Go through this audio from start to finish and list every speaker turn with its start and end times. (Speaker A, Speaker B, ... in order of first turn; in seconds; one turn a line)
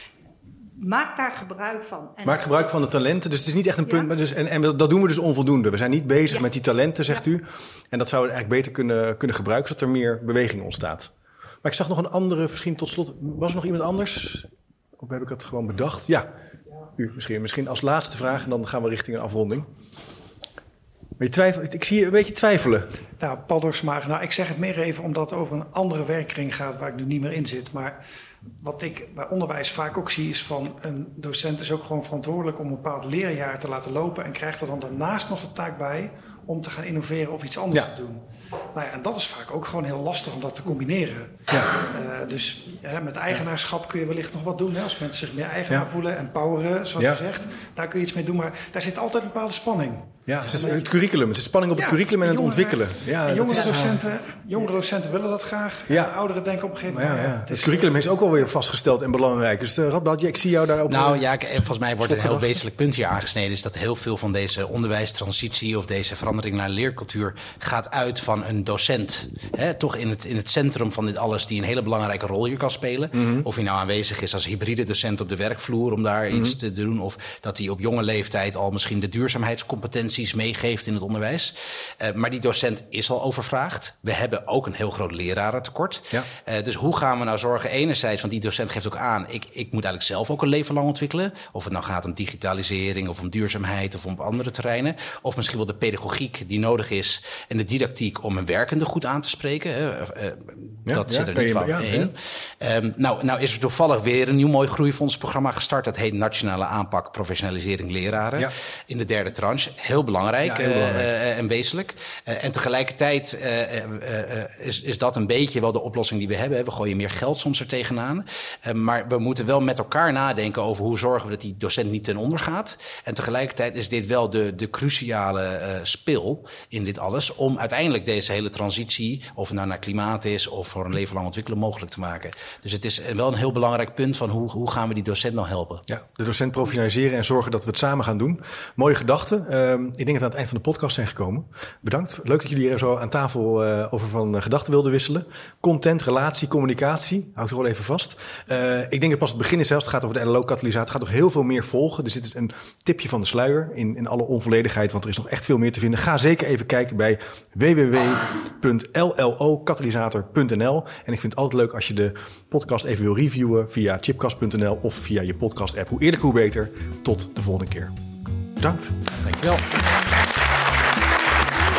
Speaker A: 0.8-2.7
Speaker B: 2.2-11.1
Speaker A: 3.9-4.1
Speaker B: 11.6-16.3
Speaker B: 17.0-19.7
Speaker B: 21.2-22.9
Speaker C: 23.2-28.0
Speaker C: 28.6-50.7
Speaker B: 47.0-47.2
Speaker B: 50.3-54.0
Speaker C: 51.8-58.0
Speaker B: 55.9-56.2
Speaker B: 56.9-61.2
Speaker D: 60.9-135.8
Speaker B: 62.0-62.6
Speaker B: 73.2-73.5
Speaker B: 100.9-102.1
Speaker B: 110.4-111.1
Speaker B: 135.9-167.9
Speaker B: 168.6-169.1
Speaker D: 169.1-169.7